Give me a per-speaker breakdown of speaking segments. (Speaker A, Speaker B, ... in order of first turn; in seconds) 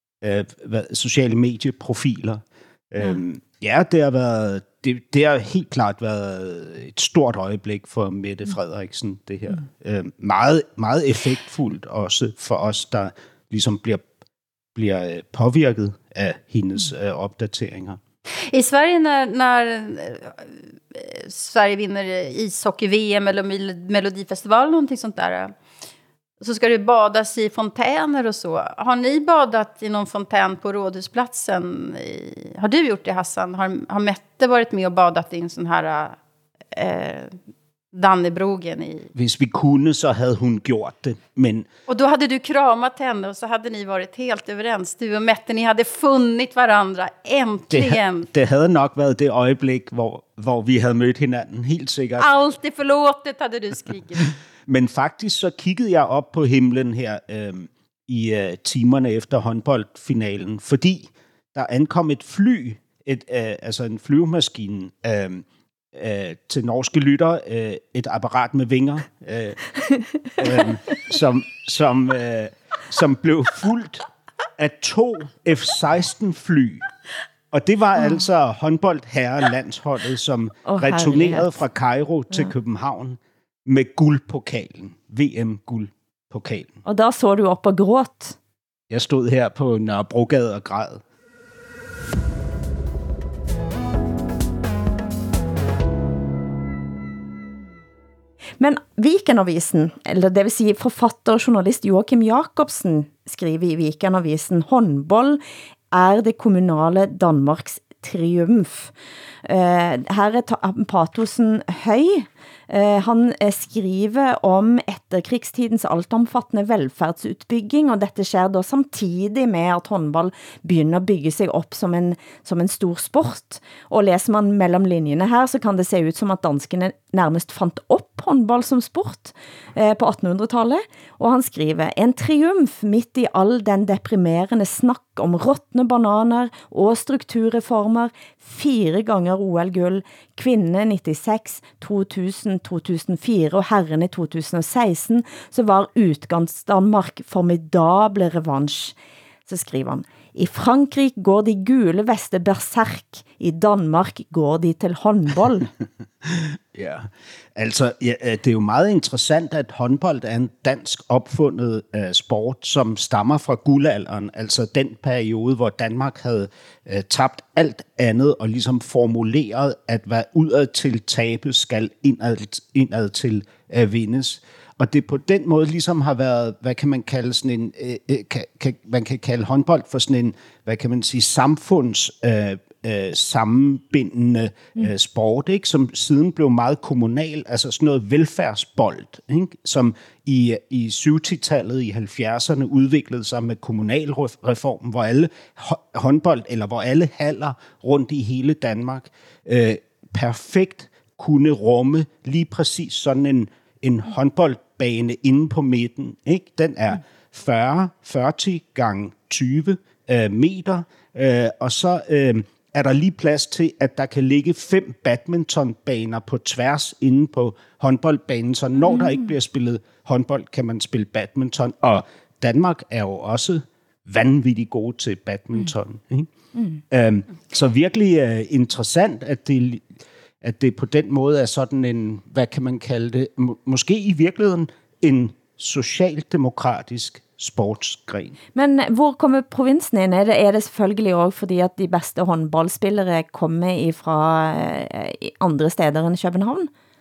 Speaker A: 0.2-14.1, 14.7-18.0, 39.1-41.7, 47.7-52.3, 54.7-69.7, 70.3-74.0, 74.6-76.8, 77.5-86.8, 88.9-91.0, 156.2-226.3, 226.9-229.9, 230.4-238.4
Speaker B: 18.5-25.5, 26.4-36.2, 36.7-37.3, 37.9-39.1, 41.9-48.3, 52.2-54.3
Speaker C: 80.7-81.6, 86.8-88.4, 98.6-108.9, 109.4-148.9, 149.5-155.7, 218.9-219.2, 238.5-246.7